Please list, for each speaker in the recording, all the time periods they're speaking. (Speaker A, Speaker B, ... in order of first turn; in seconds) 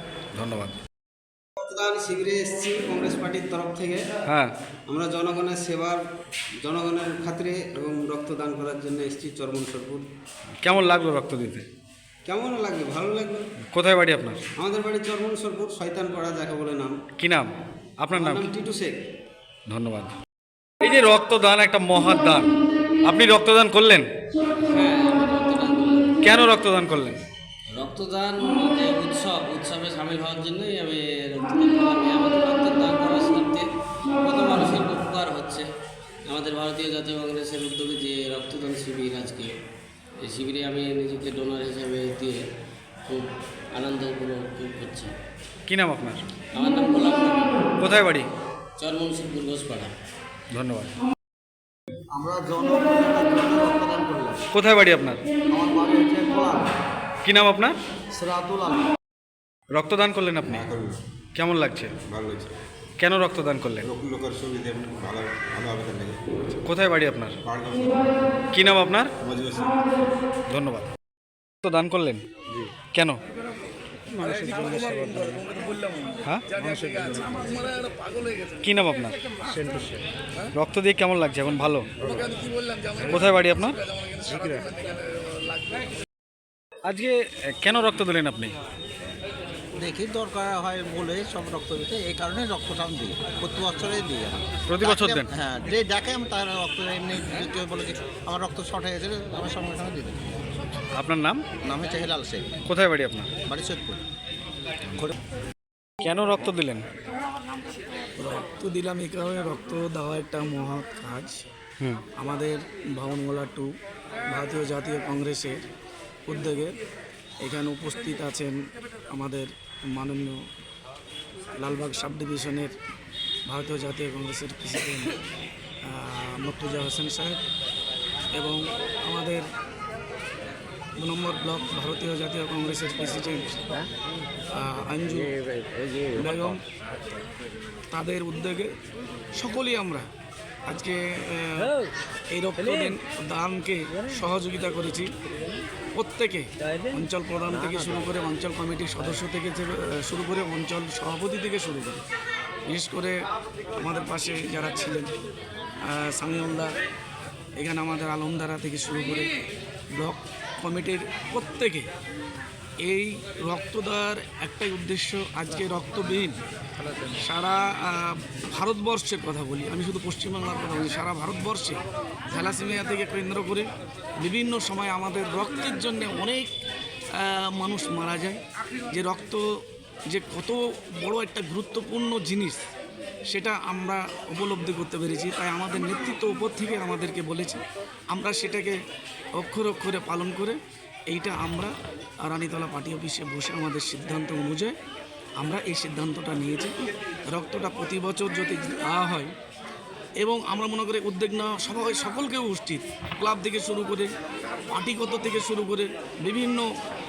Speaker A: 0.3-0.8, 4.3-4.5, 10.6-11.7, 13.7-14.4, 17.2-17.5, 18.0-18.5, 19.7-20.1, 20.8-22.5, 23.1-24.1, 26.2-27.2, 45.7-46.2, 47.8-48.3, 50.5-50.9, 54.5-55.2, 57.2-57.8, 59.7-60.7, 61.4-61.9, 63.0-63.9, 66.6-67.4, 68.5-69.1, 70.5-70.9, 71.6-72.2, 72.9-73.2, 78.6-79.2, 80.5-81.9, 83.0-83.8, 86.8-88.5, 94.7-95.3, 101.0-101.4, 102.7-103.3, 106.0-106.9
Speaker B: 1.6-4.1, 4.9-6.0, 6.6-10.0, 12.3-13.4, 14.6-16.9, 18.2-18.9
Speaker C: 24.7-26.2, 27.7-33.7, 34.2-35.7, 36.2-39.5, 40.2-42.5, 43.0-45.1, 46.5-47.7, 48.8-49.9
Speaker D: 52.1-54.4, 55.5-56.7, 58.1-58.8, 76.6-77.1, 79.6-80.0, 89.8-100.4, 101.6-102.6, 103.5-104.0
Speaker E: 60.5-61.0, 62.1-62.5, 63.8-66.2, 67.4-68.2, 69.2-70.0
Speaker F: 74.1-78.5, 82.0-83.0, 84.0-85.8, 108.2-111.4, 112.2-113.7, 114.3-115.6, 116.2-116.7, 117.4-120.5, 121.6-122.7, 123.5-125.2, 125.8-127.4, 128.3-129.4, 131.0-133.8, 134.5-135.4, 136.0-136.6, 137.9-138.7, 139.3-140.1, 140.7-145.1, 145.9-152.0, 152.7-153.2, 153.8-155.1, 155.8-156.7, 157.6-159.3, 159.9-161.9, 162.8-166.4, 167.1-173.7, 174.2-176.6, 177.1-178.4, 178.9-179.4, 180.1-182.6, 183.3-188.8, 189.3-194.7, 195.4-196.8, 197.3-199.3, 200.2-204.1, 204.7-206.7